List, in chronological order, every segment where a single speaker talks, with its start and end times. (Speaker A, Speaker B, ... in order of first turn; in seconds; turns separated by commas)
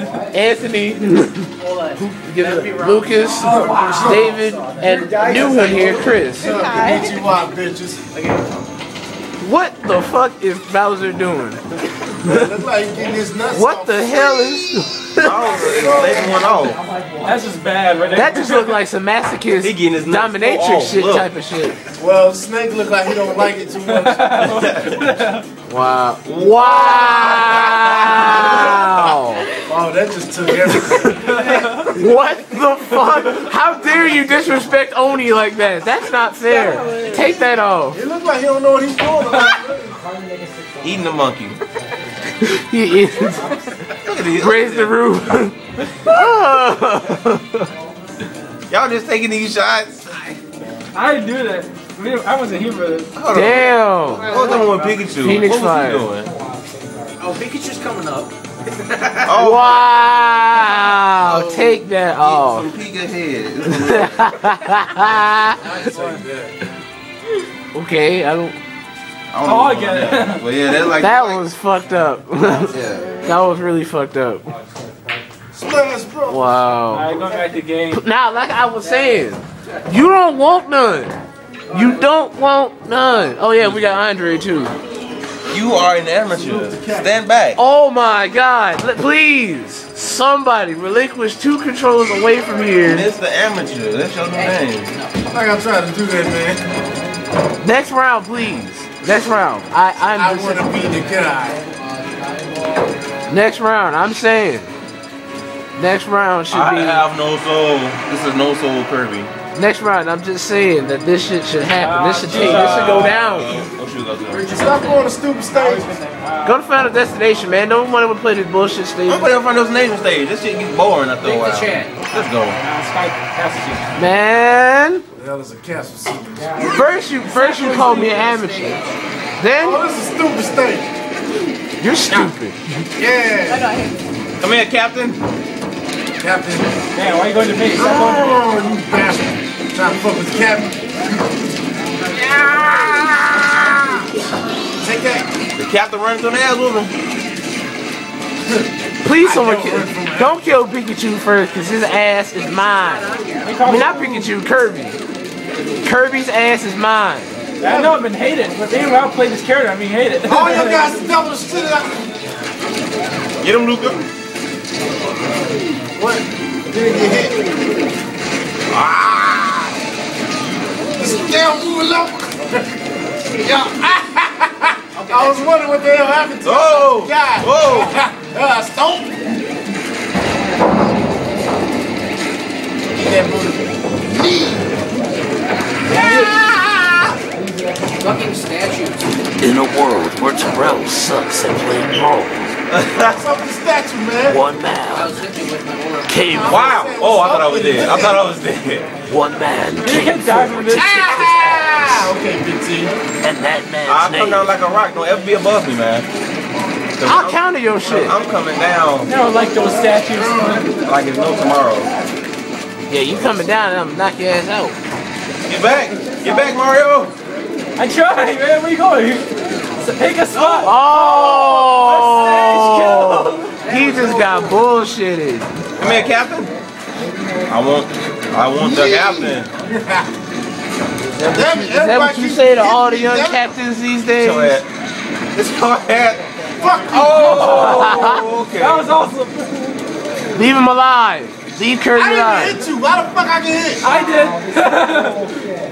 Speaker A: 0.3-6.6, Speaker B: 1.6-3.4, Speaker C: 3.3-8.2, Speaker B: 4.2-4.6, Speaker B: 6.5-7.1, Speaker B: 8.2-8.5, Speaker A: 9.4-12.5, Speaker C: 12.2-14.6, Speaker A: 13.5-15.7, Speaker D: 15.2-16.8, Speaker C: 15.5-16.5, Speaker E: 17.2-18.7, Speaker A: 18.1-21.8, Speaker D: 19.6-21.3, Speaker C: 22.0-24.5, Speaker E: 23.8-25.4, Speaker D: 24.4-25.0, Speaker A: 25.7-29.5, Speaker D: 26.2-28.9, Speaker C: 28.1-28.7, Speaker C: 29.6-31.4, Speaker A: 30.9-38.0, Speaker E: 31.4-31.9, Speaker E: 36.5-37.1, Speaker C: 37.9-40.0, Speaker D: 40.8-41.6, Speaker A: 42.4-43.6, Speaker D: 44.0-45.0, Speaker A: 44.4-47.7, Speaker D: 48.7-50.4, Speaker E: 50.9-53.1, Speaker D: 53.1-56.3, Speaker A: 53.3-54.3, Speaker B: 54.2-55.0, Speaker A: 55.2-56.2, Speaker B: 57.2-59.3, Speaker D: 59.2-59.9, Speaker A: 59.4-62.7, Speaker D: 61.2-64.3, Speaker A: 63.7-65.6, Speaker C: 65.6-66.6, Speaker E: 65.9-66.2, Speaker A: 67.7-68.6, Speaker D: 69.3-71.4, Speaker E: 69.4-70.5, Speaker A: 71.0-74.5, Speaker D: 72.5-73.0, Speaker C: 75.5-76.5, Speaker A: 76.3-77.1, Speaker E: 76.9-78.0, Speaker A: 77.9-81.1, Speaker A: 81.7-84.7, Speaker D: 85.5-87.6, Speaker C: 86.3-87.1, Speaker A: 87.5-93.1, Speaker D: 92.8-94.9, Speaker B: 94.3-95.2, Speaker C: 95.3-96.6, Speaker A: 97.6-100.9, Speaker C: 100.1-101.7, Speaker B: 100.9-103.1, Speaker A: 103.3-104.7, Speaker A: 105.8-107.0, Speaker D: 106.5-109.3, Speaker A: 109.5-113.6, Speaker E: 111.8-113.3, Speaker D: 112.4-114.6, Speaker B: 114.3-115.0, Speaker C: 114.4-116.0, Speaker E: 115.5-116.6, Speaker A: 116.4-119.3, Speaker D: 119.1-122.6, Speaker B: 121.2-121.9, Speaker E: 122.5-124.0, Speaker A: 123.9-125.0, Speaker C: 125.1-126.8, Speaker A: 126.6-128.8, Speaker B: 127.2-128.9, Speaker A: 129.4-129.8, Speaker C: 129.5-130.9, Speaker A: 131.8-132.7, Speaker C: 133.0-133.7, Speaker B: 133.4-134.0, Speaker D: 134.4-135.2, Speaker C: 136.2-136.8, Speaker E: 136.9-138.4, Speaker C: 137.7-141.3, Speaker D: 142.1-144.0, Speaker C: 144.8-145.3, Speaker D: 145.6-146.9, Speaker C: 148.5-150.4, Speaker A: 149.0-155.0, Speaker E: 153.4-154.3, Speaker A: 155.8-157.3, Speaker E: 157.6-161.0, Speaker C: 157.6-158.0, Speaker C: 160.2-162.1, Speaker D: 163.4-164.0, Speaker C: 165.9-167.5, Speaker D: 168.7-169.8, Speaker C: 170.9-172.7, Speaker C: 173.3-179.1, Speaker D: 176.4-177.9, Speaker C: 182.9-184.6, Speaker E: 185.9-186.3, Speaker C: 186.0-187.1, Speaker B: 188.0-189.2, Speaker F: 189.4-192.5, Speaker D: 192.7-193.2, Speaker C: 193.1-194.4, Speaker F: 194.3-195.1, Speaker B: 194.9-196.2, Speaker F: 196.1-196.6, Speaker C: 196.2-198.2, Speaker D: 196.3-199.0, Speaker F: 199.1-200.6, Speaker A: 199.1-199.8, Speaker E: 199.8-201.6, Speaker C: 200.7-203.0, Speaker A: 200.8-201.0, Speaker F: 203.2-204.4, Speaker D: 203.8-206.1, Speaker D: 207.0-209.1, Speaker A: 207.0-208.2, Speaker E: 209.1-210.7, Speaker D: 210.7-211.9, Speaker A: 212.9-214.8, Speaker D: 215.4-217.1, Speaker E: 217.8-223.7, Speaker A: 220.6-225.5, Speaker B: 223.7-224.4, Speaker D: 225.8-226.5, Speaker D: 227.5-229.5, Speaker C: 228.6-230.1, Speaker A: 231.2-234.6, Speaker C: 231.3-233.5, Speaker D: 234.1-234.7, Speaker D: 235.3-236.3, Speaker C: 236.5-237.6, Speaker D: 236.9-238.8, Speaker E: 237.1-239.8, Speaker A: 237.2-238.2, Speaker A: 240.3-242.6, Speaker C: 241.9-243.9, Speaker E: 243.8-245.4